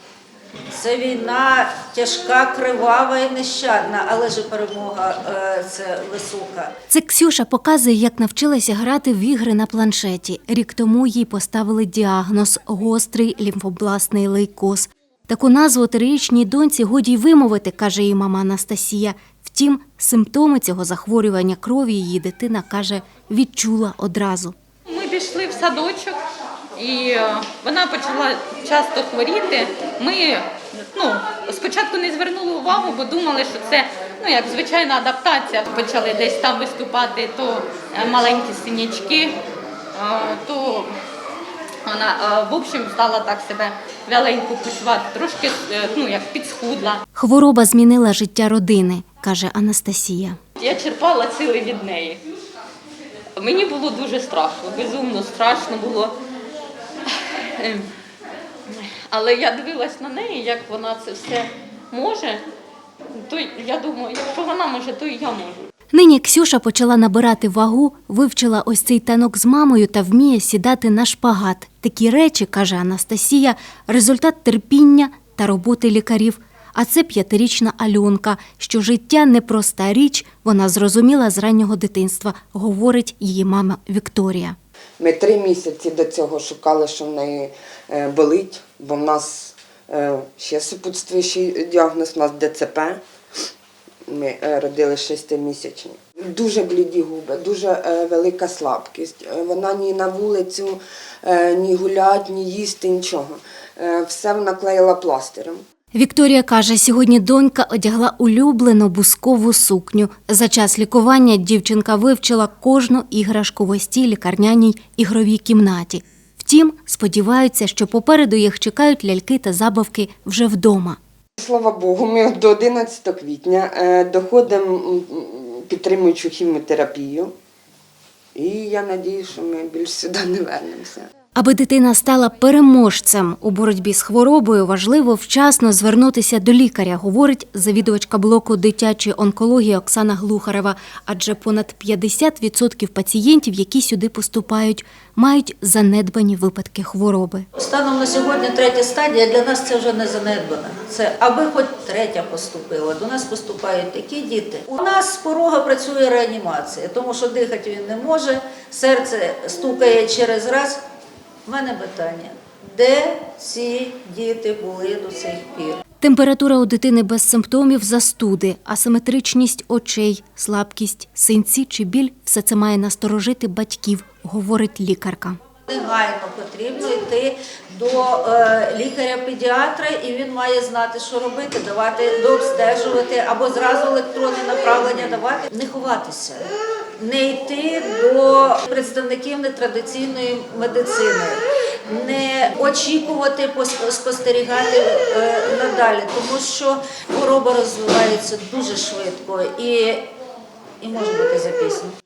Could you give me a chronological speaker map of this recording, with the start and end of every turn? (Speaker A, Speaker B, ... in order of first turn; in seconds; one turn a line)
Speaker A: 0.7-6.7
Speaker B: 6.9-24.5
Speaker C: 24.9-26.2
Speaker C: 26.8-39.4
Speaker C: 39.9-40.9
Speaker C: 41.8-47.0
Speaker B: 47.1-50.4
Speaker C: 50.6-52.2
Speaker C: 53.4-56.1
Speaker C: 57.6-57.9
Speaker C: 58.7-62.4
Speaker C: 63.1-65.7
Speaker B: 65.9-84.5
Speaker D: 85.0-93.0
Speaker D: 94.1-105.6
Speaker B: 105.9-121.0
Speaker D: 121.4-127.3
Speaker D: 128.3-131.1
Speaker B: 131.3-147.4
Speaker A: 147.5-160.8
Speaker A: 161.4-165.8
Speaker B: 166.0-175.4
Speaker A: 175.7-186.5
Speaker A: 187.0-200.1
Speaker A: 200.8-201.9